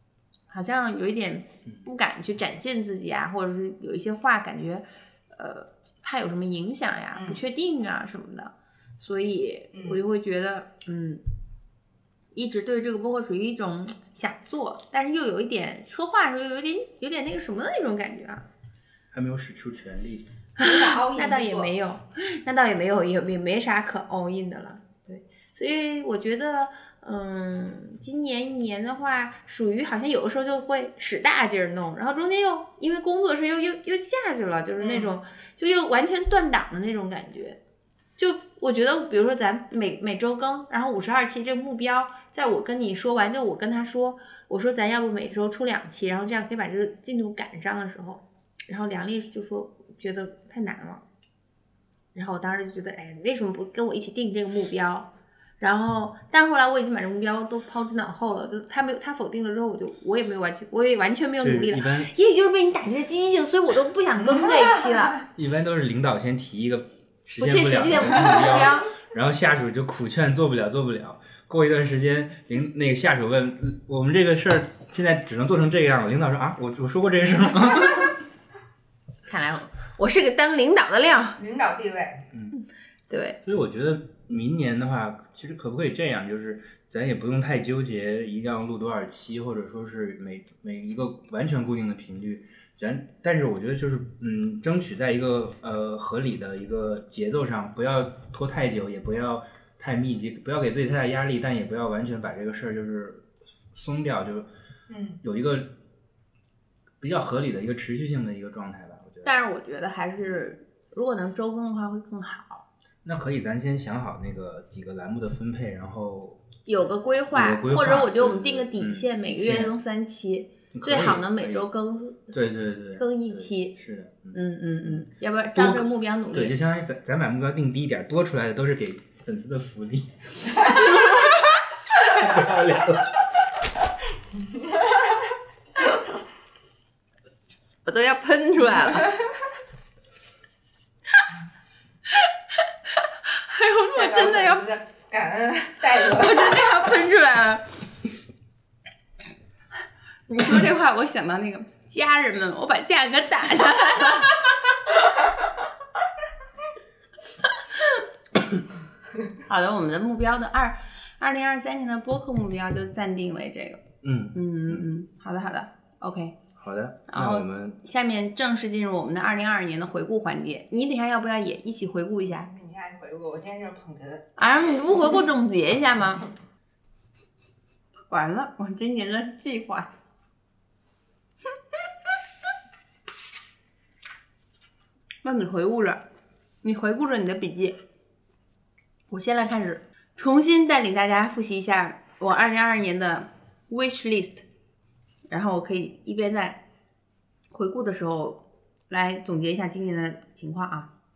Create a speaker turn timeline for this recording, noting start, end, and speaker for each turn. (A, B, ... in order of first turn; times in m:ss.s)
0:00.5-0:11.2 A
0:07.1-0:07.4 B
0:09.7-0:10.0 B
0:12.3-0:18.4 A
0:19.1-0:20.3 C
0:20.6-0:37.6 A
0:20.6-0:21.7 B
0:34.8-0:35.1 B
0:38.2-0:51.0 A
0:52.2-0:55.1 A
0:55.6-1:05.2 A
1:01.4-1:02.1 C
1:04.2-1:05.0 B
1:05.4-1:18.2 C
1:07.4-1:08.9 A
1:19.3-1:21.4 A
1:21.4-1:22.3 B
1:22.6-1:23.4 A
1:23.4-1:44.5 C
1:44.9-1:45.2 B
1:45.2-1:45.7 C
1:47.0-1:49.3 C
1:49.2-1:52.6 A
1:53.0-1:56.5 C
1:56.7-2:02.4 A
1:57.3-1:59.8 C
2:00.7-2:01.7 C
2:02.3-2:05.0 C
2:02.9-2:03.8 A
2:04.3-2:06.6 A
2:05.6-2:13.3 C
2:14.7-2:15.0 B
2:17.9-2:19.2 A
2:18.9-2:19.2 B
2:23.0-2:24.7 A
2:24.0-2:26.9 B
2:26.0-2:27.9 A
2:30.3-2:34.4 A
2:39.4-2:43.8 A
2:44.0-2:44.9 C
2:44.4-2:46.4 A
2:46.6-2:47.8 C
2:47.1-2:52.5 A
2:52.3-2:54.3 B
2:54.4-2:56.3 A
2:58.1-2:59.9 A
3:05.2-3:06.0 A
3:06.6-3:07.8 A
3:09.1-3:14.4 A
3:15.3-3:16.6 A
3:17.5-3:20.9 A